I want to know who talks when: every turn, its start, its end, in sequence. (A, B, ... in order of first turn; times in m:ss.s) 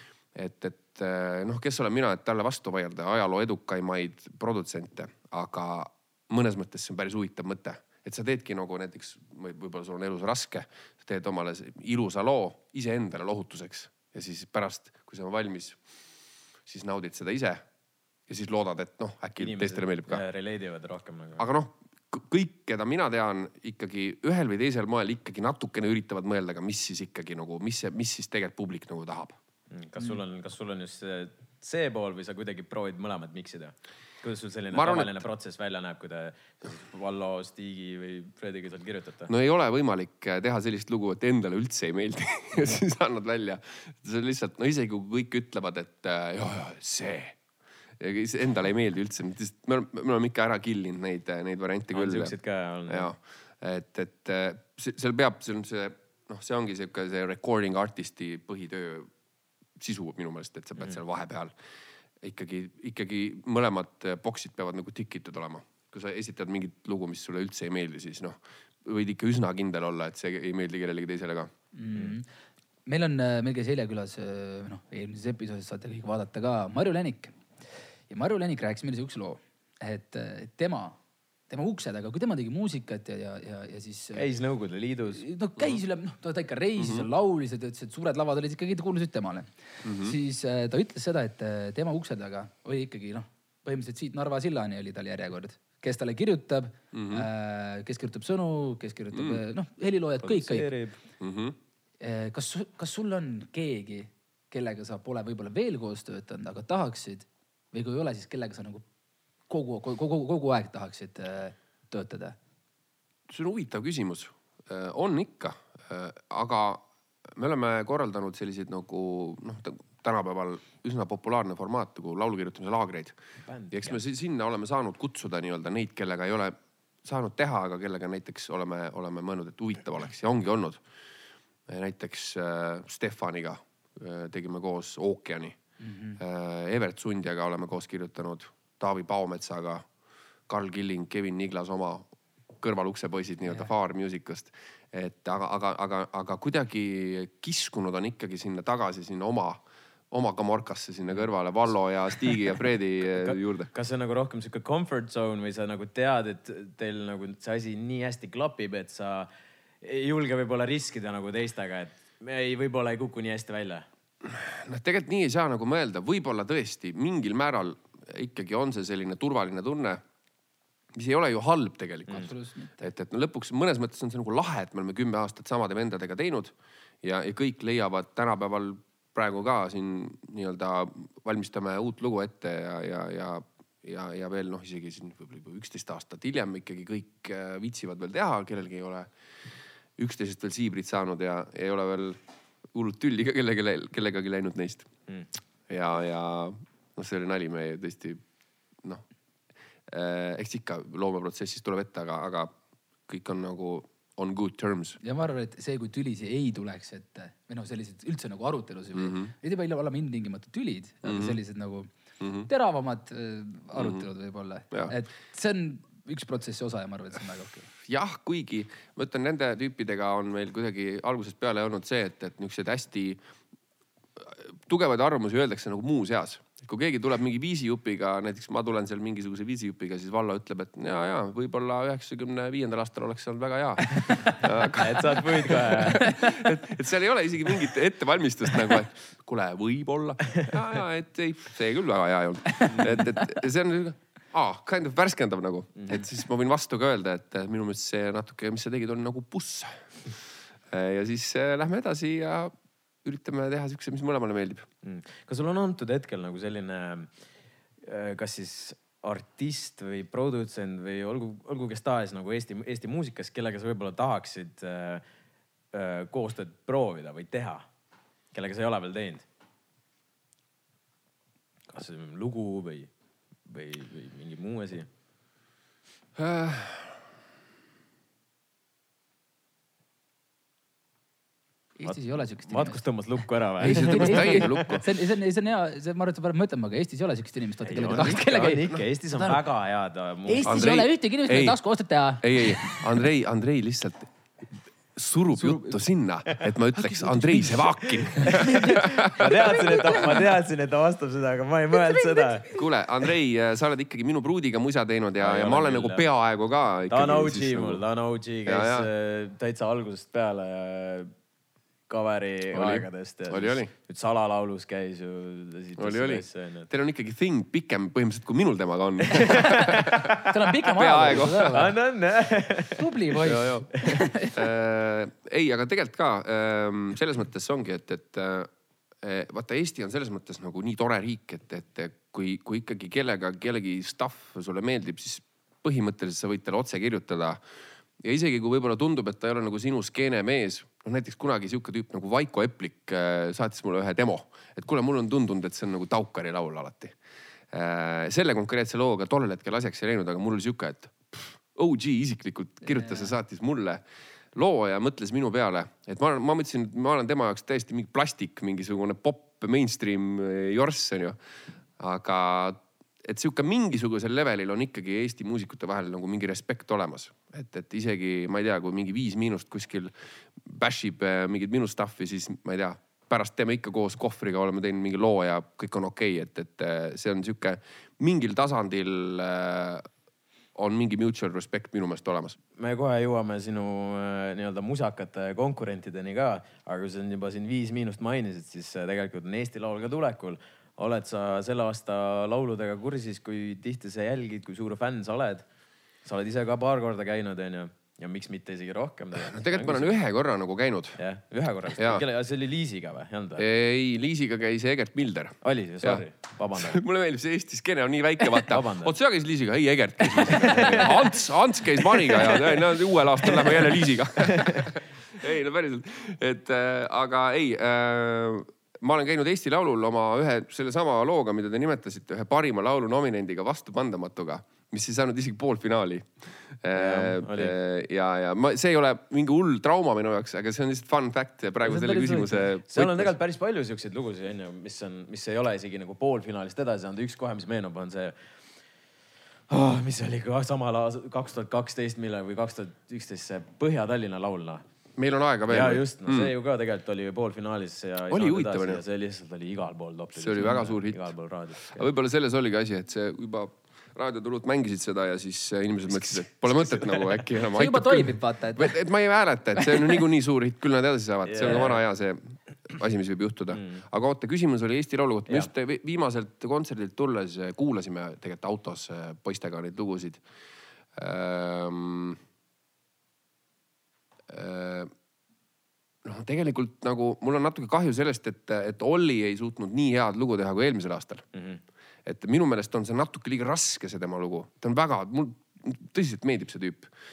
0:00.3-0:15.8 A
0:16.6-0:17.6 A
0:18.3-0:20.2 A
0:19.4-0:21.4 B
0:21.4-0:29.4 A
0:29.7-0:39.3 B
0:34.7-0:35.2 A
0:39.3-0:47.4 A
0:48.0-0:52.3 A
0:51.9-0:53.1 B
0:52.9-0:59.1 A
0:59.8-1:01.5 A
1:02.2-1:11.5 A
1:11.7-1:12.3 C
1:12.8-1:17.3 C
1:18.1-1:21.0 C
1:21.5-1:24.2 C
1:24.1-1:25.2 B
1:25.2-1:40.7 C
1:26.8-1:27.1 A
1:29.8-1:30.1 A
1:36.9-1:37.2 A
1:39.1-1:39.4 A
1:40.2-1:41.0 B
1:41.2-1:41.6 A
1:42.0-1:48.8 C
1:49.5-1:52.4 C
1:53.3-2:03.1 A
2:03.5-2:04.0 B
2:03.7-2:10.8 A
2:11.7-2:15.6 A
2:15.8-2:16.2 C
2:16.2-2:19.8 A
2:20.5-2:22.1 A
2:22.6-2:33.7 A
2:33.1-2:39.3 B
2:39.8-2:43.8 B
2:44.2-2:50.0 A
2:50.9-2:52.3 A
2:52.1-2:52.9 C
2:52.8-3:09.1 A
3:10.0-3:12.2 A
3:12.7-3:14.9 A
3:15.7-3:18.2 A
3:19.9-3:22.5 A
3:23.1-3:25.0 A
3:25.0-3:31.9 C
3:28.9-3:29.3 A
3:31.0-3:31.4 A
3:32.2-3:32.5 A
3:32.5-3:37.7 C
3:33.7-3:34.0 A
3:37.8-3:43.2 A
3:44.2-4:09.8 A
3:54.1-3:56.0 B
3:56.0-3:56.5 C
4:02.6-4:03.0 B
4:10.7-4:12.5 A
4:13.0-4:14.6 A
4:14.8-4:17.1 B
4:17.8-4:25.0 B
4:25.7-4:27.6 B
4:28.3-4:29.2 B
4:31.7-4:32.9 B
4:33.4-4:34.9 B
4:36.2-4:36.9 A
4:41.8-4:42.8 C
4:41.8-4:44.7 B
4:43.6-4:49.4 C
4:43.6-4:44.8 A
4:47.6-4:50.8 B
4:50.3-4:53.0 C
4:50.4-4:51.6 A
4:52.2-4:54.1 A
4:54.9-5:00.1 A
4:55.4-4:55.7 C
4:56.7-4:58.9 C
4:58.2-5:02.5 B
5:01.8-5:02.6 C
5:02.5-5:07.8 A
5:05.2-5:06.0 B
5:06.9-5:11.1 B
5:08.4-5:08.9 A
5:11.9-5:16.7 B
5:12.5-5:13.7 A
5:15.8-5:20.1 A
5:19.1-5:20.3 B
5:20.2-5:21.8 C
5:20.7-5:21.7 A
5:21.4-5:22.9 B
5:22.7-5:24.5 C
5:23.2-5:28.5 A
5:29.0-5:37.4 A
5:38.0-5:47.0 A
5:47.5-5:53.8 A
5:52.7-5:53.1 C
5:54.3-6:01.2 A
6:01.8-6:19.9 A
6:20.5-6:22.4 A
6:22.6-6:35.5 B
6:36.0-6:39.9 B
6:39.2-6:41.0 A
6:41.0-6:43.4 B
6:41.8-6:42.0 A
6:43.4-7:13.1 A
6:45.4-6:46.8 B
6:48.4-6:48.9 B
6:50.0-6:51.1 B
6:51.8-6:52.6 B
6:53.2-6:54.7 B
7:06.7-7:07.5 B
7:11.6-7:12.5 C
7:12.7-7:18.1 B
7:19.5-7:24.6 B
7:25.0-7:26.3 A
7:25.5-7:31.9 B
7:28.1-7:28.8 A
7:30.2-7:31.1 A
7:31.7-7:50.2 A
7:36.0-7:37.2 B
7:37.5-7:38.8 C
7:39.6-7:40.0 C
7:41.2-7:41.8 B
7:43.5-7:43.8 B
7:50.9-7:52.2 A
7:54.3-7:54.9 A
7:56.0-8:01.2 A
8:01.3-8:01.6 B
8:02.0-8:06.9 A